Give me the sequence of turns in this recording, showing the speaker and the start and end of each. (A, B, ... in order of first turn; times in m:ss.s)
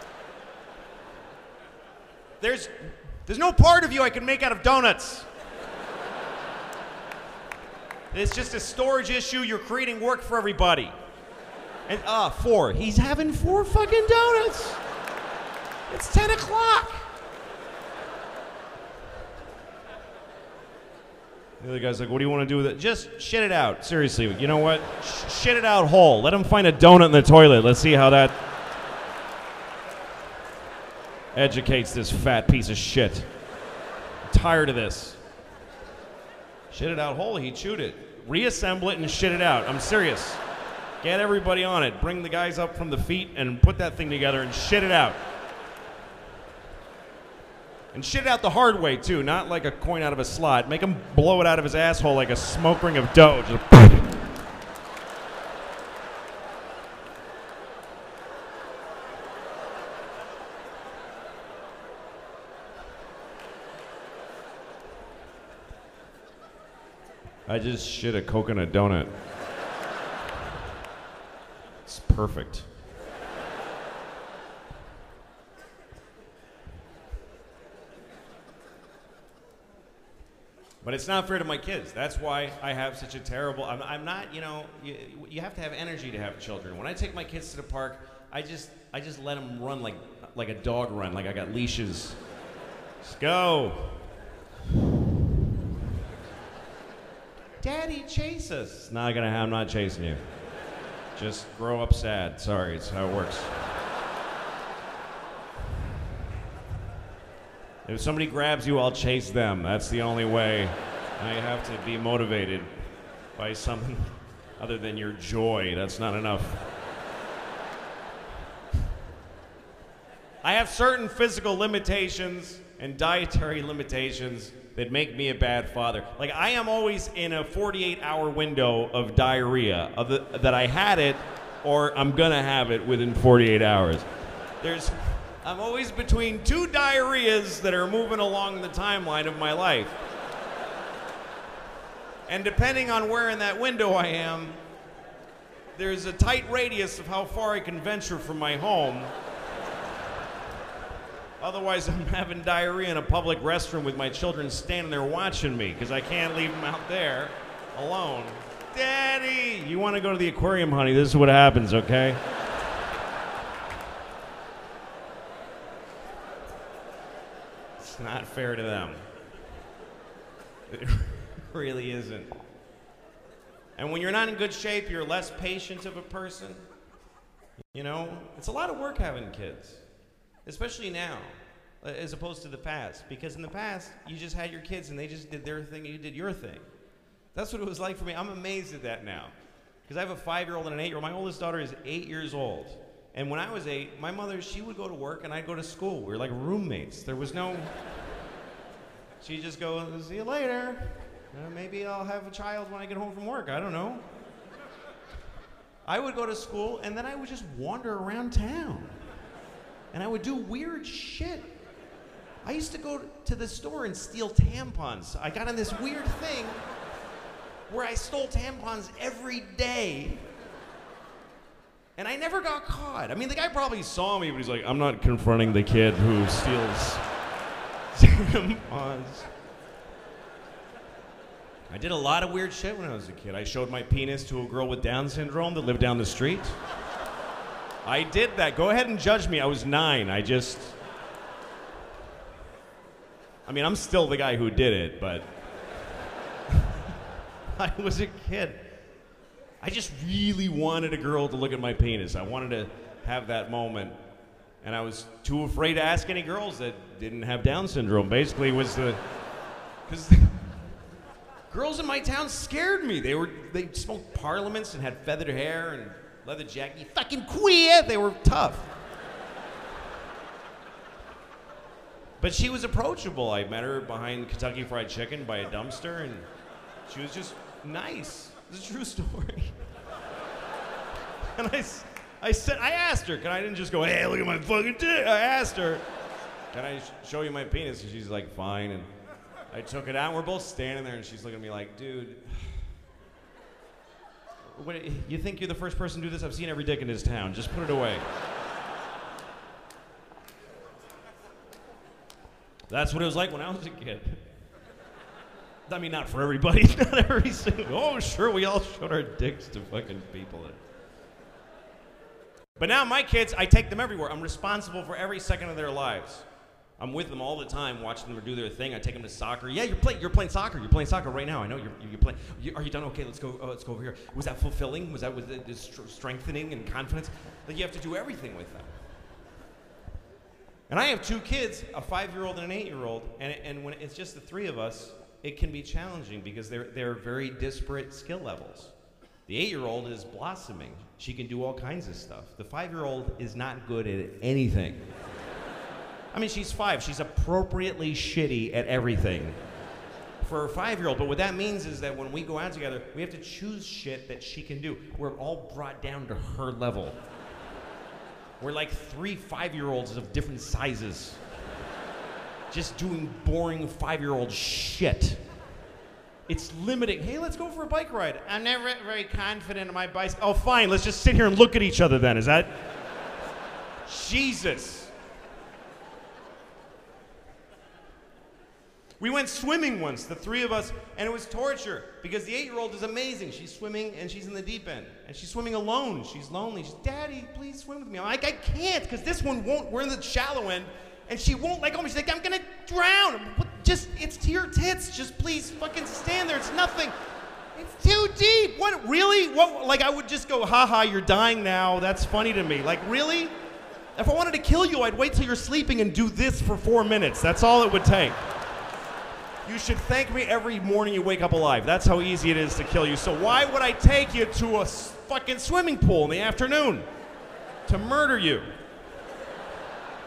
0:02.4-0:05.3 A
0:08.1-0:10.9 A
0:11.9-0:14.8 A
0:15.9-0:17.0 A
0:21.6-0:28.4 A
0:31.3-0:33.3 A
0:34.3-0:35.2 A
0:36.7-0:40.4 A
0:41.0-0:45.2 A
0:47.9-0:54.1 A
1:07.5-1:09.1 A
1:11.9-1:12.7 A
1:20.8-1:32.2 A
1:33.0-1:34.0 A
1:37.6-1:40.2 A
1:41.2-1:43.5 A
1:47.8-1:52.7 A
1:53.3-1:56.6 A
2:00.4-2:14.0 A
2:14.6-2:20.0 A
2:22.3-2:24.6 A
2:25.7-2:29.1 A
2:31.4-2:42.2 A
2:47.8-2:49.0 A
2:50.7-2:52.3 A
2:53.8-2:56.6 A
2:57.7-2:59.8 A
3:00.4-3:06.6 A
3:07.3-3:09.3 A
3:09.9-3:17.7 A
3:19.2-3:24.0 A
3:25.8-3:28.9 A
3:29.9-3:31.5 A
3:32.4-3:36.6 A
3:37.7-3:40.2 A
3:42.0-3:47.0 A
3:47.9-3:49.3 A
3:51.7-3:56.6 A
3:57.8-4:00.7 A
4:03.4-4:05.3 A
4:06.5-4:06.8 A
4:07.6-4:08.6 A
4:09.6-4:14.0 A
4:14.6-4:19.0 A
4:19.9-4:20.5 A
4:21.5-4:28.7 A
4:32.2-4:36.3 A
4:36.9-4:39.5 A
4:41.3-4:45.8 A
4:46.5-4:48.9 A
4:49.5-4:52.7 A
4:54.4-4:58.0 A
5:02.7-5:04.2 A
5:05.7-5:10.6 A
5:12.6-5:16.2 A
5:16.8-5:28.7 A
5:30.7-5:38.7 A
5:39.3-5:44.8 A
5:46.1-5:49.4 A
5:50.2-5:57.0 A
5:58.4-6:01.2 A
6:02.5-6:05.2 A
6:06.3-6:12.5 A
6:13.9-6:14.9 A
6:19.0-6:36.9 A
6:37.5-6:43.4 A
6:44.0-6:48.2 A
6:49.4-6:56.8 A
6:57.6-6:58.5 A